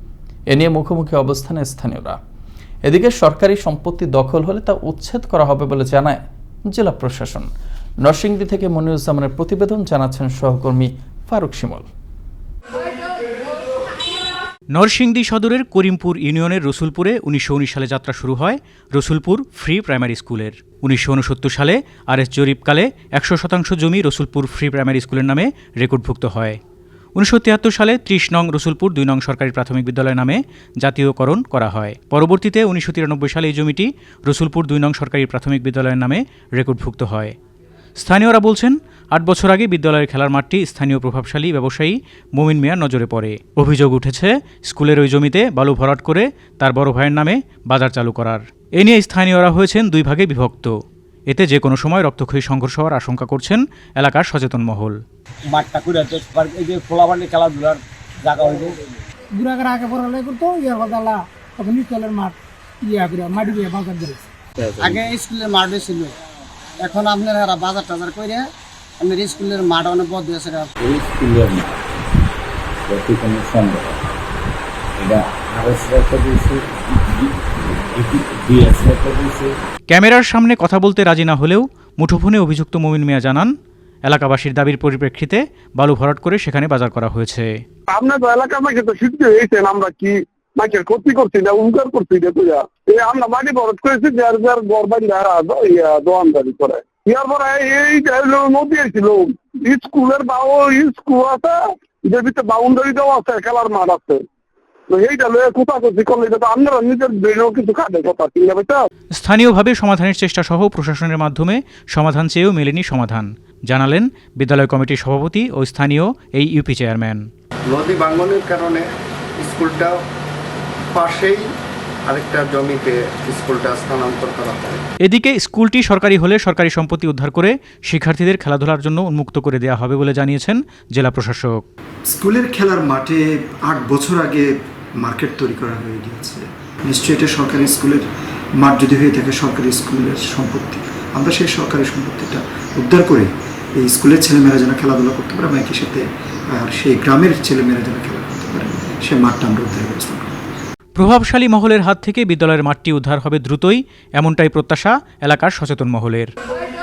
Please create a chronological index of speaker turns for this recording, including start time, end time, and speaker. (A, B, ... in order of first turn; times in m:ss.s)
0:00.5-0:02.2 A
0:02.8-0:07.5 A
0:08.0-0:11.9 A
0:14.7-0:26.6 B
0:27.2-0:37.3 B
0:38.0-0:50.7 B
0:51.3-0:55.0 B
0:55.5-0:58.8 C
0:59.4-1:02.3 D
1:02.9-1:04.2 D
1:04.7-1:05.0 E
1:04.8-1:06.1 C
1:06.8-1:08.5 C
1:09.0-1:10.7 C
1:10.8-1:11.8 E
1:12.9-1:14.0 E
1:15.0-1:17.3 E
1:18.0-1:19.5 E
1:19.9-1:23.5 B
1:24.1-1:27.5 B
1:27.9-1:44.2 F
1:44.9-1:48.8 F
1:49.2-1:57.2 B
1:57.7-2:00.0 G
2:00.9-2:01.4 G
2:02.1-2:04.8 G
2:05.0-2:11.6 B
2:12.1-2:26.0 H
2:26.6-2:30.4 H
2:30.9-2:36.3 B